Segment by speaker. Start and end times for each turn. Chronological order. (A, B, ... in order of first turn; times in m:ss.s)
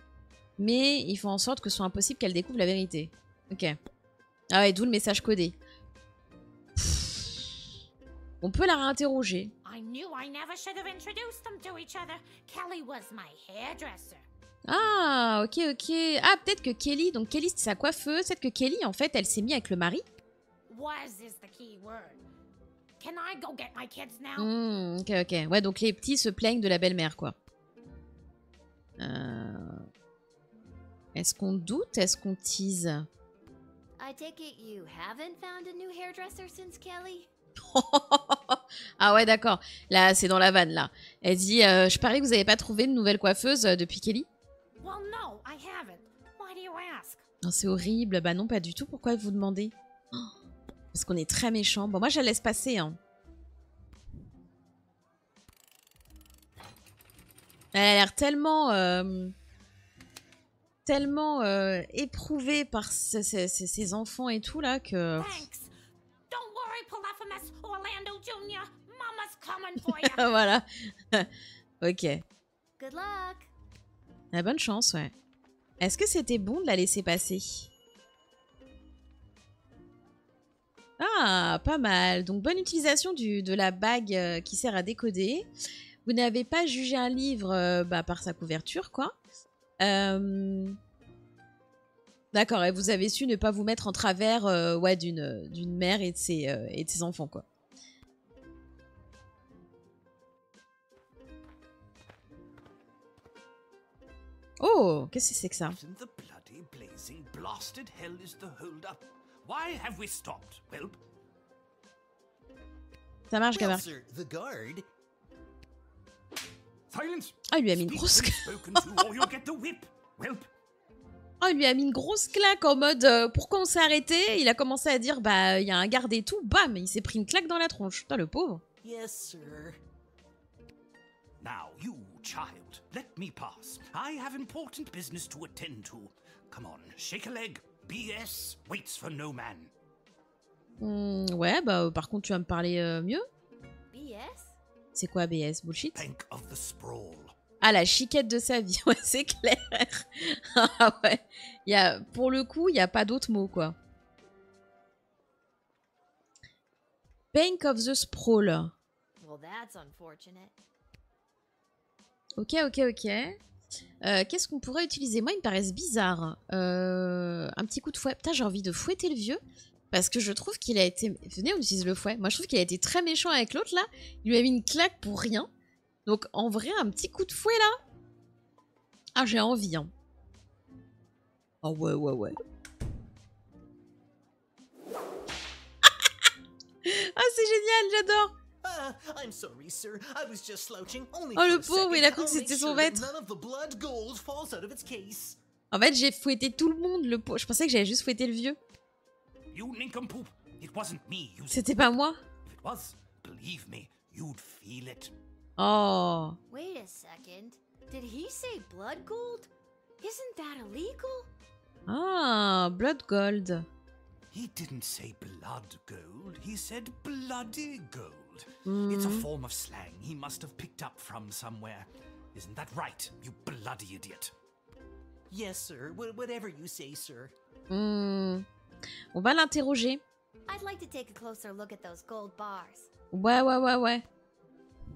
0:00.6-0:03.8 A
0:04.5-0:05.6 A
0:06.8-0:07.6 A
0:08.4-0:09.5 A
0:09.6-0:14.2 B
0:14.7-0:20.0 A
0:20.7-0:22.2 B
0:23.0-0:24.5 B
0:24.4-0:27.4 A
0:29.0-0:29.9 A
0:31.2-0:33.1 A
0:34.0-0:37.3 C
0:37.6-0:44.3 A
0:44.8-0:47.2 B
0:47.4-0:50.3 A
0:50.9-0:53.0 A
0:57.7-0:59.3 A
1:00.8-1:05.5 A
1:05.2-1:05.7 B
1:06.3-1:10.3 B
1:10.0-1:11.3 A
1:11.8-1:12.2 A
1:12.8-1:13.5 C
1:14.3-1:15.1 A
1:15.8-1:17.7 A
1:21.0-1:25.5 A
1:26.0-1:29.2 A
1:29.8-1:30.8 A
1:32.3-1:37.4 A
1:44.6-1:45.8 A
1:45.7-1:51.0 D
1:53.3-1:53.8 A
1:53.5-1:54.9 E
1:56.9-2:00.5 D
1:57.5-1:58.8 A
2:01.4-2:08.6 A
2:08.8-2:09.7 D
2:11.4-2:19.7 D
2:20.8-2:23.2 A
2:23.9-2:24.6 C
2:25.0-2:26.0 A
2:25.9-2:27.4 D
2:27.6-2:33.8 A
2:37.3-2:38.7 A
2:39.2-2:40.5 C
2:42.4-2:43.4 A
2:44.0-2:49.4 A
2:49.9-2:55.5 A
2:56.1-2:57.8 A
2:59.2-2:59.9 A
3:01.6-3:02.4 A
3:06.8-3:08.3 A
3:08.6-3:15.4 E
3:11.4-3:13.1 A
3:15.7-3:18.6 A
3:19.5-3:21.7 D
3:21.5-3:22.2 A
3:22.5-3:25.1 D
3:25.6-3:26.4 A
3:26.5-3:29.5 C
3:30.0-3:31.3 C
3:31.9-3:33.7 A
3:34.3-3:44.3 D
3:38.7-3:39.3 A
3:45.3-3:47.3 E
3:47.7-3:48.5 A
3:49.1-3:50.0 A
3:50.5-3:52.9 C
3:53.1-3:54.0 A